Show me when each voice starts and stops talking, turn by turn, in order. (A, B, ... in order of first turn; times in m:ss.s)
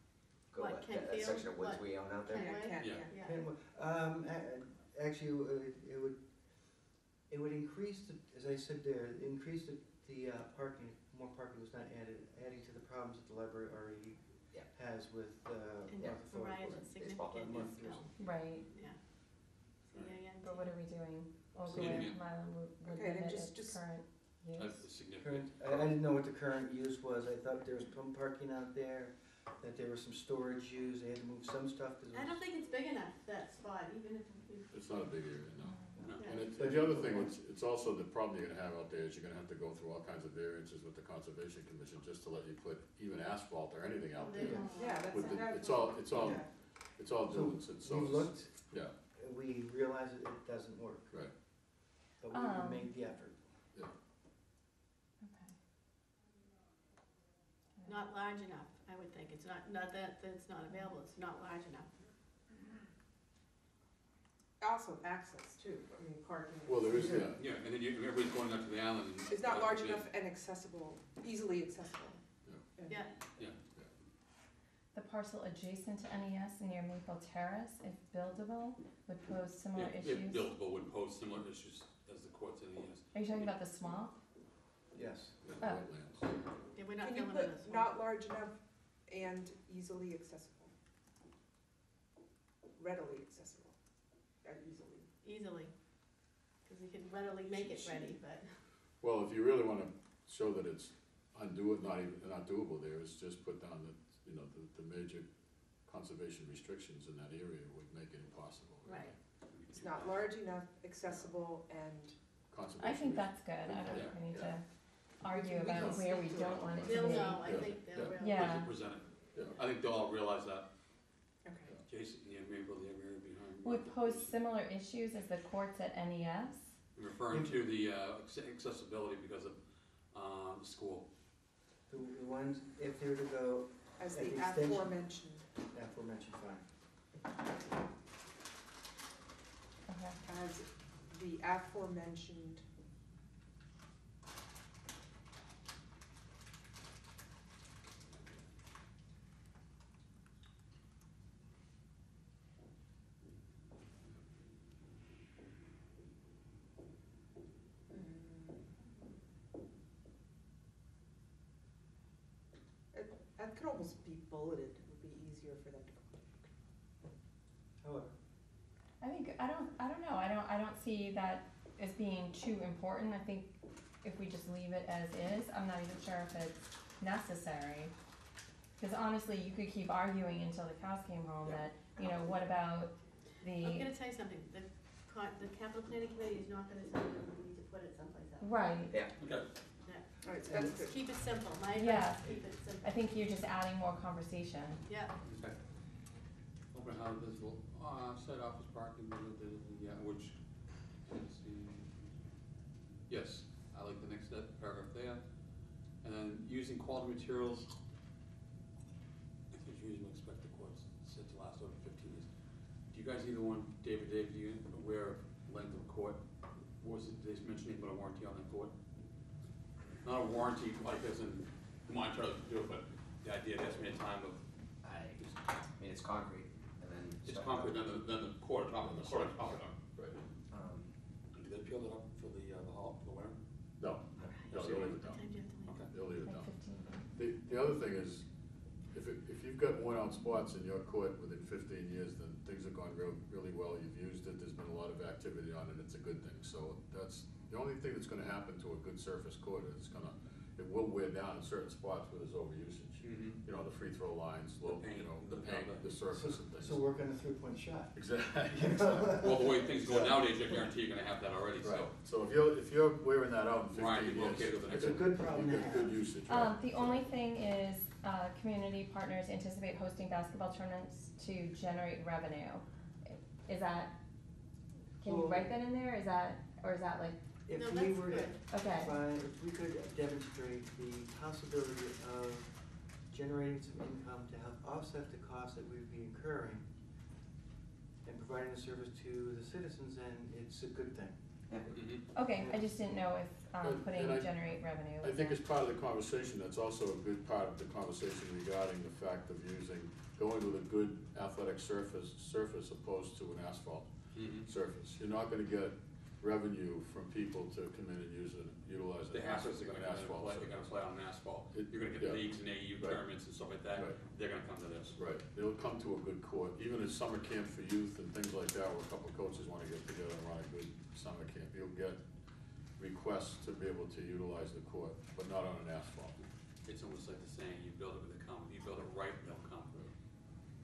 0:00.5-0:02.6 A
0:00.6-0:03.4 B
0:02.3-0:03.2 C
0:03.2-0:06.2 D
0:07.3-0:18.0 D
0:15.9-0:19.0 B
0:17.0-0:18.0 A
0:18.2-0:18.7 E
0:19.8-0:20.7 B
0:20.4-0:24.9 E
0:21.7-0:22.2 F
0:21.7-0:22.0 D
0:22.9-0:23.8 C
0:24.6-0:25.9 F
0:25.2-0:32.4 D
0:32.1-0:34.7 B
0:34.7-0:48.9 G
0:36.0-0:37.4 D
0:36.0-0:36.3 F
0:36.2-0:36.5 B
0:44.2-0:45.7 B
0:44.4-0:44.7 D
0:44.7-0:46.5 C
0:46.1-0:46.4 D
0:47.3-0:51.3 D
0:52.2-0:53.4 D
0:52.3-0:52.9 E
0:55.2-0:55.5 E
0:57.8-0:58.0 E
0:57.9-1:01.9 B
1:04.6-1:07.3 C
1:06.7-1:07.4 G
1:07.4-1:10.1 F
1:09.3-1:12.2 C
1:12.8-1:13.1 C
1:12.9-1:13.1 B
1:14.9-1:20.5 E
1:19.7-1:23.5 F
1:23.1-1:24.2 E
1:24.9-1:25.4 D
1:25.4-1:26.4 G
1:25.6-1:25.9 E
1:26.8-1:27.9 B
1:27.0-1:30.7 C
1:32.8-1:33.8 C
1:34.4-1:35.1 C
1:35.2-1:35.7 B
1:36.7-1:38.6 B
1:37.5-1:38.2 C
1:39.0-1:45.3 G
1:45.8-1:49.2 G
1:48.8-1:49.1 B
1:49.5-1:50.3 F
1:49.7-1:52.2 C
1:52.5-1:54.6 G
1:52.8-1:54.7 E
1:53.9-1:54.2 F
1:55.2-1:58.8 E
1:55.3-1:57.1 C
1:55.7-1:58.2 G
1:56.8-1:58.5 B
1:58.2-2:00.7 F
1:59.3-1:59.6 G
2:01.4-2:01.8 C
2:01.9-2:04.3 F
2:03.6-2:06.7 E
2:06.9-2:09.6 F
2:07.3-2:07.6 D
2:10.1-2:11.1 F
2:11.9-2:14.9 D
2:14.0-2:15.5 C
2:15.7-2:16.6 D
2:19.9-2:20.2 E
2:20.3-2:22.6 C
2:37.9-2:38.8 C
2:42.9-2:46.5 C
2:47.8-2:48.1 D
2:49.0-2:57.9 E
2:58.8-3:03.9 E
3:01.4-3:02.0 A
3:03.6-3:08.6 B
3:08.4-3:09.0 E
3:09.2-3:09.5 F
3:09.8-3:13.0 B
3:10.2-3:11.0 C
3:10.5-3:10.8 D
3:11.7-3:14.8 E
3:14.9-3:15.1 B
3:15.2-3:15.6 F
3:16.7-3:20.4 F
3:21.0-3:22.1 F
3:23.1-3:25.2 F
3:26.0-3:27.7 F
3:29.5-3:32.3 F
3:32.9-3:36.2 F
3:36.8-3:38.7 F
3:40.0-3:44.4 F
3:44.8-3:48.0 A
3:47.2-3:49.8 F
3:48.8-3:50.2 G
3:50.5-3:50.9 A
3:51.4-3:53.4 F
3:53.8-3:55.2 G
3:54.2-3:54.4 A
3:54.3-3:55.8 B
3:54.5-3:55.0 F
3:55.9-3:56.5 G
3:56.2-3:57.0 E
3:57.1-3:58.3 G
3:58.9-4:16.8 G
4:13.0-4:13.4 F
4:14.7-4:15.9 F
4:16.1-4:19.5 D
4:18.0-4:20.2 G
4:19.2-4:21.9 F
4:21.6-4:27.1 G
4:23.7-4:25.2 F
4:24.7-4:26.1 D
4:26.3-4:33.9 E
4:35.0-4:37.2 E
4:35.0-4:35.6 D
4:37.5-4:42.5 D
4:37.5-4:38.4 B
4:38.5-4:39.0 E
4:43.1-4:46.7 D
4:48.0-4:51.2 D
4:51.7-4:52.0 F
4:52.1-4:55.4 E
4:52.3-4:52.6 D
4:53.6-5:10.7 G
5:04.1-5:04.5 F
5:09.1-5:15.0 F
5:11.5-5:13.0 G
5:15.0-5:22.2 G
5:22.7-5:26.2 G
5:26.6-5:29.9 F